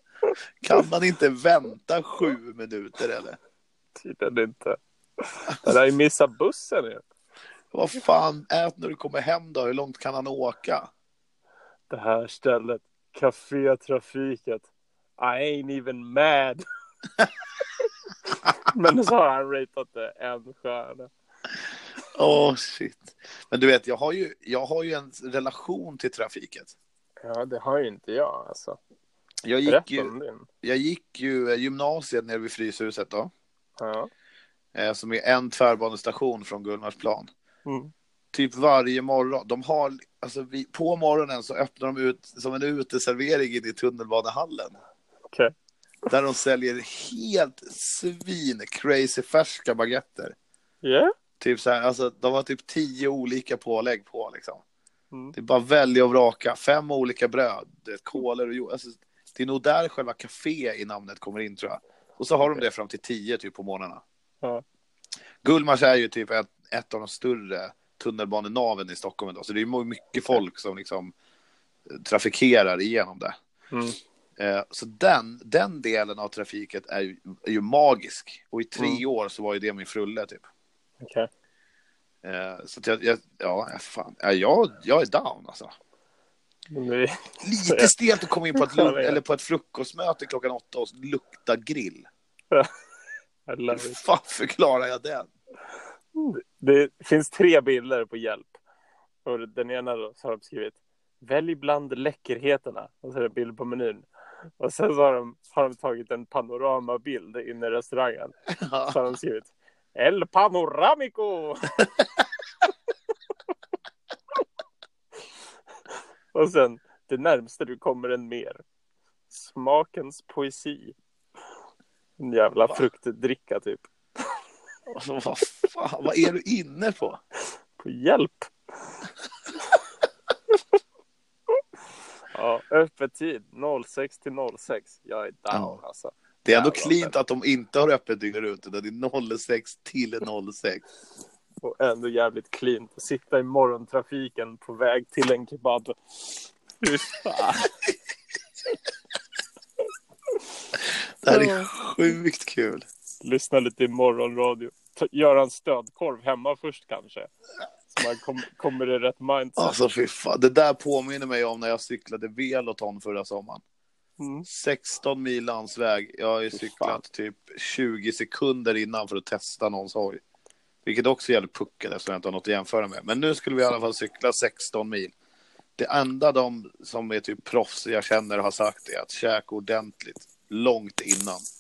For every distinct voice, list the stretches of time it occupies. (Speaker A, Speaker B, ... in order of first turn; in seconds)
Speaker A: 0.6-3.4, 7.7-10.9, 22.1-26.7, 29.4-33.3, 34.8-37.3, 38.3-44.8, 46.1-50.4, 51.4-54.6, 55.3-64.0, 65.4-71.1, 71.9-73.3, 74.4-80.5, 82.2-85.7, 87.4-92.1, 93.7-95.3, 108.6-109.0, 124.9-127.2, 135.5-135.8, 136.4-140.8, 151.2-152.9, 159.6-163.6, 164.5-170.2, 170.8-175.1, 175.8-181.4
Speaker B: 4.0-7.0, 11.9-14.7, 15.2-16.6, 18.6-21.1, 27.2-28.8, 29.7-30.5, 33.8-34.1, 37.6-37.9, 50.8-51.1, 73.7-74.0, 78.8-79.0, 81.0-81.3, 86.7-87.9, 88.5-89.2, 93.5-94.0, 96.1-98.6, 99.2-104.1, 104.6-108.4, 108.9-111.8, 115.9-118.6, 119.3-121.0, 122.2-124.4, 127.8-128.5, 132.3-137.2, 141.6-146.0, 146.8-147.7, 151.3-151.7, 153.2-157.3, 157.9-159.8, 164.2-164.5, 166.5-167.0